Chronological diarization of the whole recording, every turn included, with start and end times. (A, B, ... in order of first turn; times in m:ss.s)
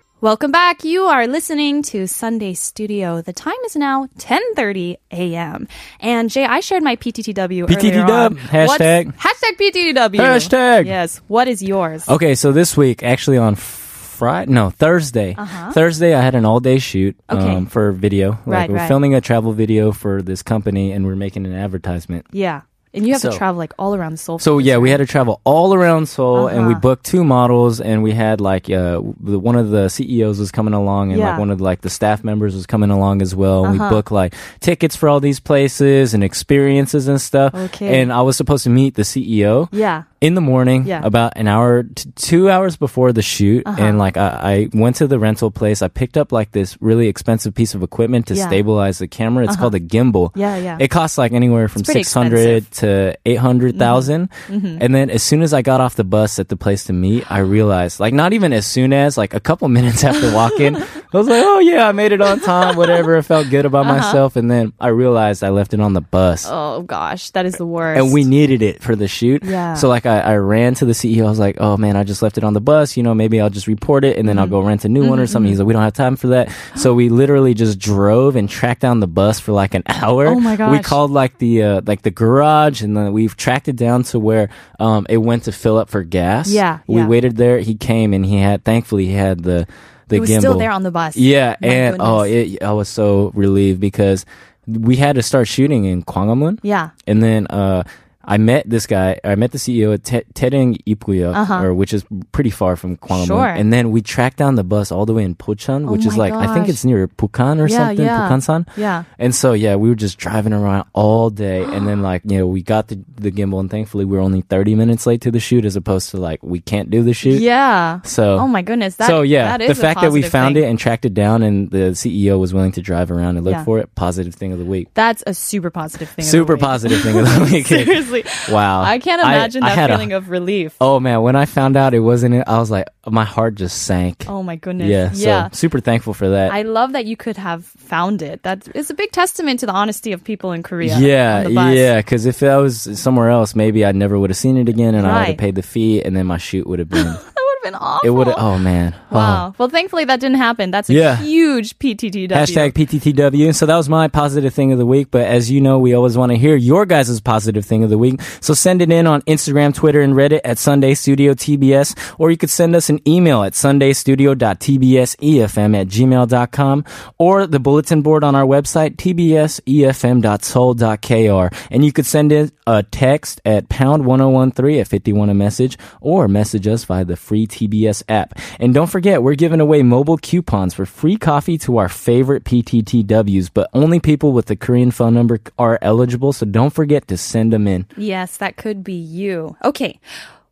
0:00.2-0:12.1 A
0:07.7-0:09.1 B
0:10.2-0:10.9 B
0:12.0-0:22.2 B
0:15.4-0:15.8 A
0:17.3-0:17.6 A
0:18.5-0:19.0 A
0:22.3-0:25.0 A
0:23.1-0:23.4 B
0:24.4-1:06.5 B
0:26.3-0:26.8 A
0:31.1-0:31.4 A
0:33.6-0:34.0 A
0:37.5-0:38.1 A
0:39.7-0:40.1 A
0:40.8-0:41.1 A
0:43.6-0:44.0 A
0:48.3-0:48.6 A
0:49.5-0:49.7 A
0:50.3-0:50.8 A
0:51.8-0:52.6 A
0:53.7-0:54.8 A
1:02.4-1:03.0 A
1:03.8-1:04.2 A
1:06.4-1:08.2 A
1:07.9-1:57.4 B
1:09.4-1:09.9 A
1:14.2-1:15.6 A
1:20.2-1:21.0 A
1:26.4-1:27.1 A
1:30.1-1:32.3 A
1:36.6-1:36.9 A
1:41.3-1:41.7 A
1:43.1-1:43.6 A
1:45.8-1:46.8 A
1:47.6-1:49.0 A
1:57.2-2:00.6 A
1:58.0-1:58.5 B
1:59.0-2:04.9 B
2:04.9-2:10.8 A
2:06.2-2:10.1 B
2:10.8-2:16.6 B
2:14.2-2:15.5 A
2:16.5-2:21.9 A
2:20.8-2:27.2 B
2:25.0-2:25.4 A
2:27.0-2:28.4 A
2:28.0-2:29.4 B
2:29.1-2:32.7 A
2:30.9-2:31.3 B
2:32.3-3:07.9 B
3:08.0-3:10.0 A